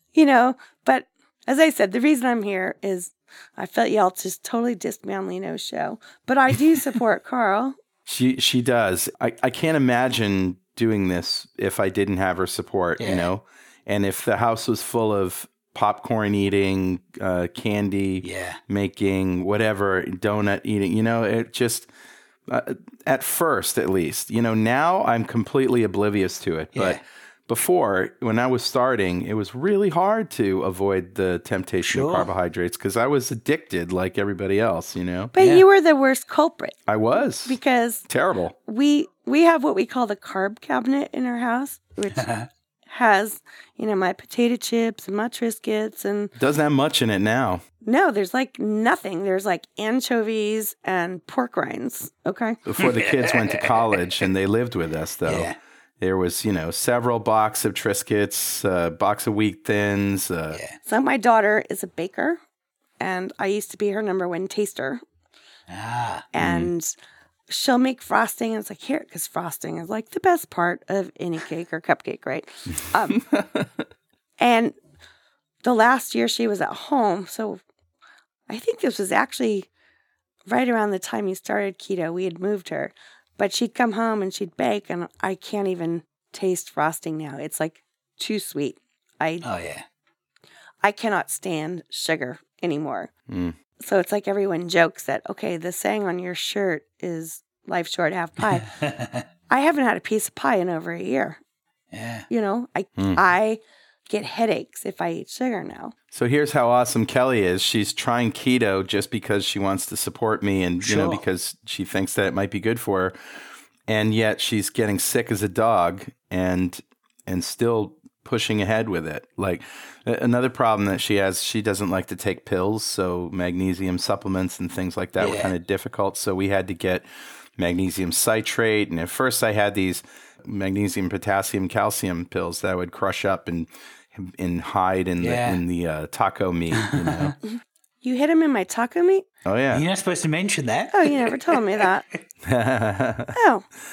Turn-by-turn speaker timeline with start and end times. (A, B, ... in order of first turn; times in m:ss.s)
0:00.1-0:07.8 A
0:08.0-0:21.9 B
0:13.0-0:13.3 C
0:18.2-0:18.6 C
0:22.5-0:35.3 B
0:26.7-0:27.0 C
0:31.8-0:32.3 C
0:35.3-0:36.8 A
0:35.4-0:35.6 C
0:36.9-0:37.6 B
0:37.4-0:38.0 A
0:38.1-0:38.5 B
0:38.6-0:42.3 A
0:42.1-0:42.5 C
0:42.9-0:46.3 A
0:46.4-0:47.6 B
0:47.8-0:52.6 A
0:52.6-1:00.6 B
0:52.8-0:54.0 C
0:55.2-0:55.6 C
1:00.8-1:02.4 A
1:03.0-1:05.0 A
1:05.7-1:06.2 C
1:06.3-1:06.9 A
1:06.4-1:06.7 B
1:07.5-1:13.2 A
1:13.3-1:13.7 B
1:14.4-1:14.7 A
1:15.6-1:17.6 A
1:18.5-1:19.7 A
1:20.5-1:29.5 A
1:29.4-1:29.8 C
1:30.8-1:33.1 A
1:33.3-1:33.6 B
1:33.8-1:38.7 A
1:38.6-1:39.2 C
1:39.5-1:41.4 A
1:41.9-1:42.3 C
1:42.3-1:45.9 A
1:46.1-1:53.2 B
1:50.8-1:51.2 C
1:53.9-2:17.4 B
2:05.2-2:05.5 C
2:15.2-2:15.6 C
2:16.7-2:17.3 C
2:18.0-2:19.2 A
2:19.4-2:19.8 B
2:19.7-2:21.9 C
2:20.9-2:22.0 A
2:22.4-2:23.3 B
2:23.3-2:23.6 A